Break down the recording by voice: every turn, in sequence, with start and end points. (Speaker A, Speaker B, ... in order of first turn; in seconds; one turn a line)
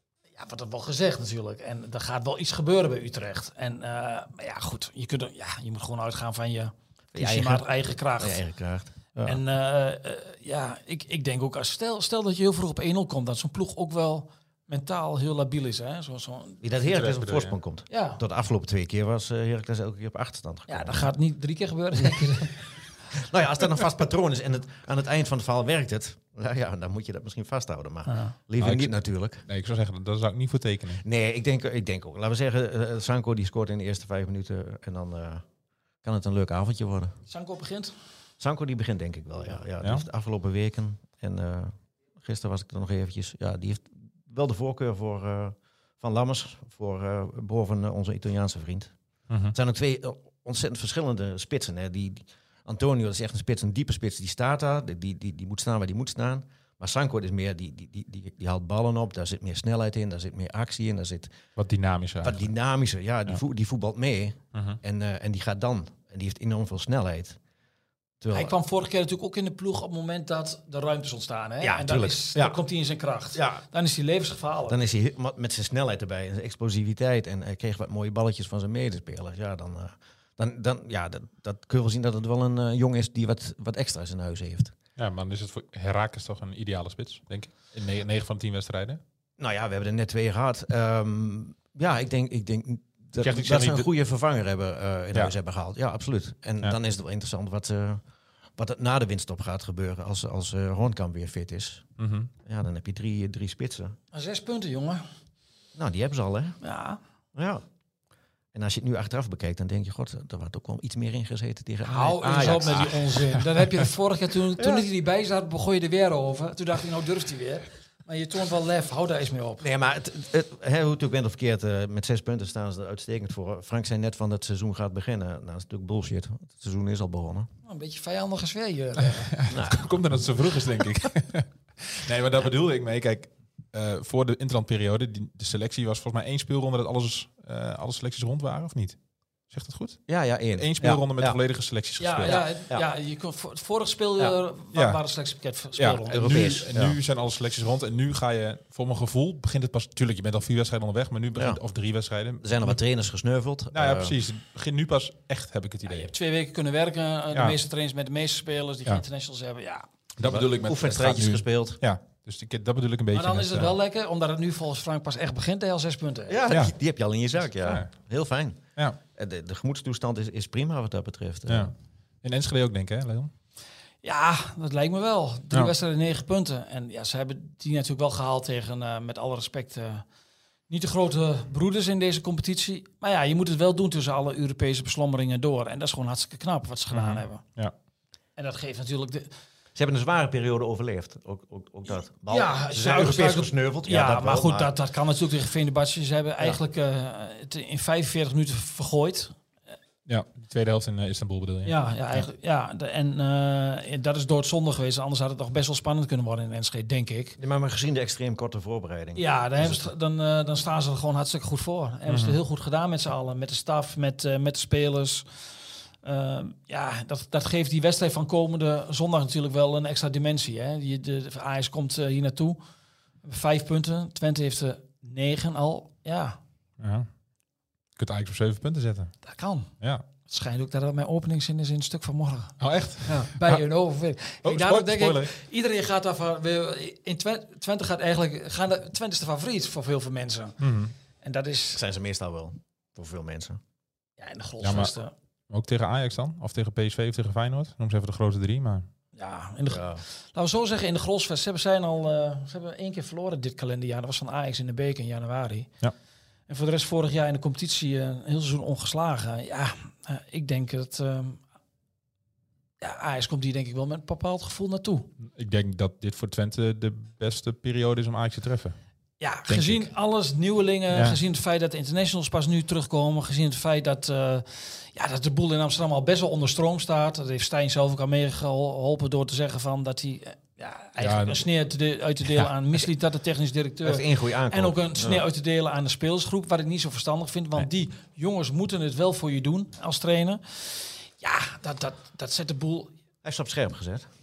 Speaker A: 0.4-8.4
Speaker B: 7.1-9.4
Speaker A: 9.2-16.6
Speaker B: 16.6-21.1
Speaker C: 16.9-17.6
Speaker A: 17.9-18.2
Speaker A: 20.7-22.7
Speaker B: 23.1-29.4
Speaker A: 28.1-28.4
Speaker C: 28.6-28.9
Speaker C: 29.4-31.0
Speaker B: 31.0-35.4
Speaker B: 36.0-37.2
Speaker A: 37.3-37.9
Speaker B: 38.4-48.9
Speaker C: 49.3-49.5
Speaker B: 49.5-61.4
Speaker C: 61.6-62.5
Speaker B: 62.2-67.4
Speaker B: 68.2-68.6
Speaker A: 68.3-74.8
Speaker B: 71.6-72.6
Speaker B: 73.3-73.6
Speaker B: 74.7-84.7
Speaker C: 85.0-89.0
Speaker B: 89.4-98.0
Speaker C: 93.2-93.9
Speaker B: 98.6-101.8
Speaker C: 102.0-102.3
Speaker B: 102.5-104.0
Speaker A: 104.1-105.0
Speaker B: 105.8-106.6
Speaker A: 106.6-107.0
Speaker B: 107.3-107.6
Speaker B: 108.5-113.2
Speaker A: 111.8-119.7
Speaker B: 114.6-114.8
Speaker B: 119.6-127.5
Speaker A: 127.7-129.3
Speaker C: 129.3-139.0
Speaker B: 129.5-130.0
Speaker C: 139.5-140.0
Speaker B: 140.1-141.4
Speaker C: 140.6-142.4
Speaker A: 142.0-146.2
Speaker B: 142.3-142.9
Speaker C: 144.7-145.0
Speaker C: 145.8-152.8
Speaker B: 146.1-147.0
Speaker B: 151.3-151.6
Speaker B: 152.4-154.2
Speaker C: 153.7-156.1
Speaker A: 155.9-159.9
Speaker C: 160.2-163.8
Speaker B: 160.2-161.8
Speaker A: 163.1-166.4
Speaker B: 166.3-168.6
Speaker C: 166.5-166.7
Speaker C: 167.6-167.9
Speaker B: 169.1-171.7
Speaker C: 171.5-173.3
Speaker A: 174.0-180.1
Speaker A: 180.7-187.4
Speaker C: 186.9-187.7
Speaker A: 188.4-189.3
Speaker B: 189.8-194.7
Speaker A: 192.3-199.3
Speaker C: 200.1-202.2
Speaker A: 201.7-207.4
Speaker B: 207.4-209.9
Speaker A: 209.2-215.3
Speaker C: 212.1-212.4
Speaker A: 216.0-222.6
Speaker A: 223.2-226.4
Speaker C: 226.8-227.1
Speaker C: 228.0-229.1
Speaker A: 229.2-229.7
Speaker A: 230.3-240.6
Speaker C: 232.6-233.6
Speaker C: 234.4-235.3
Speaker C: 240.6-240.9
Speaker A: 241.2-241.8
Speaker B: 241.8-243.6
Speaker A: 244.2-245.1
Speaker C: 244.6-244.9
Speaker C: 245.5-248.9
Speaker A: 249.2-255.7
Speaker B: 249.7-250.0
Speaker A: 256.5-261.4
Speaker A: 262.8-265.1
Speaker C: 265.2-268.8
Speaker A: 269.2-292.9
Speaker C: 269.5-269.9
Speaker C: 270.9-271.2
Speaker C: 281.0-281.4
Speaker B: 283.8-285.2
Speaker B: 293.2-294.1